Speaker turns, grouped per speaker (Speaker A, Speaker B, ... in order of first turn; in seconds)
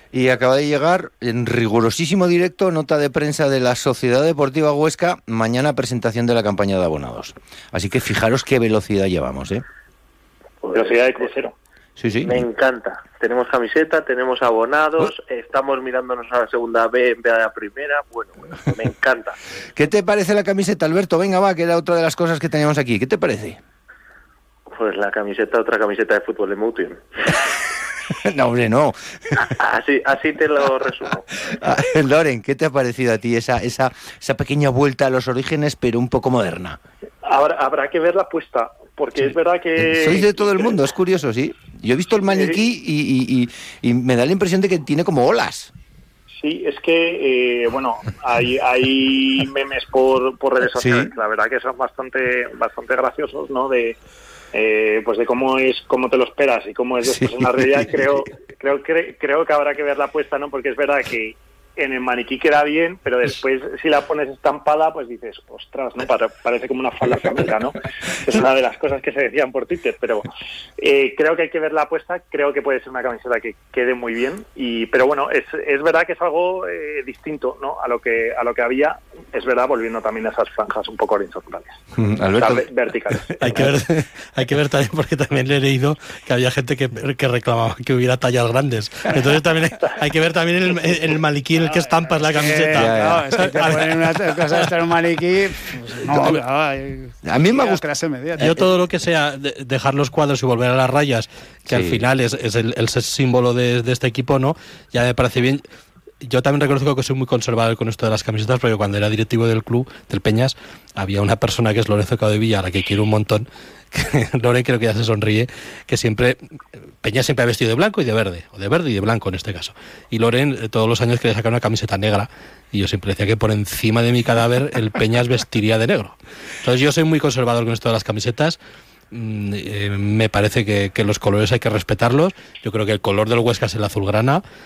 Speaker A: 0.1-9.6, 12.0-12.4, 19.8-23.6, 28.2-29.0, 31.6-36.8, 39.8-45.7, 50.8-51.1, 82.0-82.7, 92.7-93.7, 97.2-97.8, 101.7-102.0
Speaker B: 10.6-11.3, 12.2-19.4, 24.7-27.0, 29.4-31.6
Speaker C: 10.7-11.5, 37.2-40.7, 42.3-42.6, 46.4-54.0, 54.5-70.3, 70.8-81.8, 82.3-83.7
Speaker D: 83.4-94.0, 98.4-105.6, 106.2-116.4, 117.0-128.6, 129.1-134.4
Speaker E: 91.8-98.6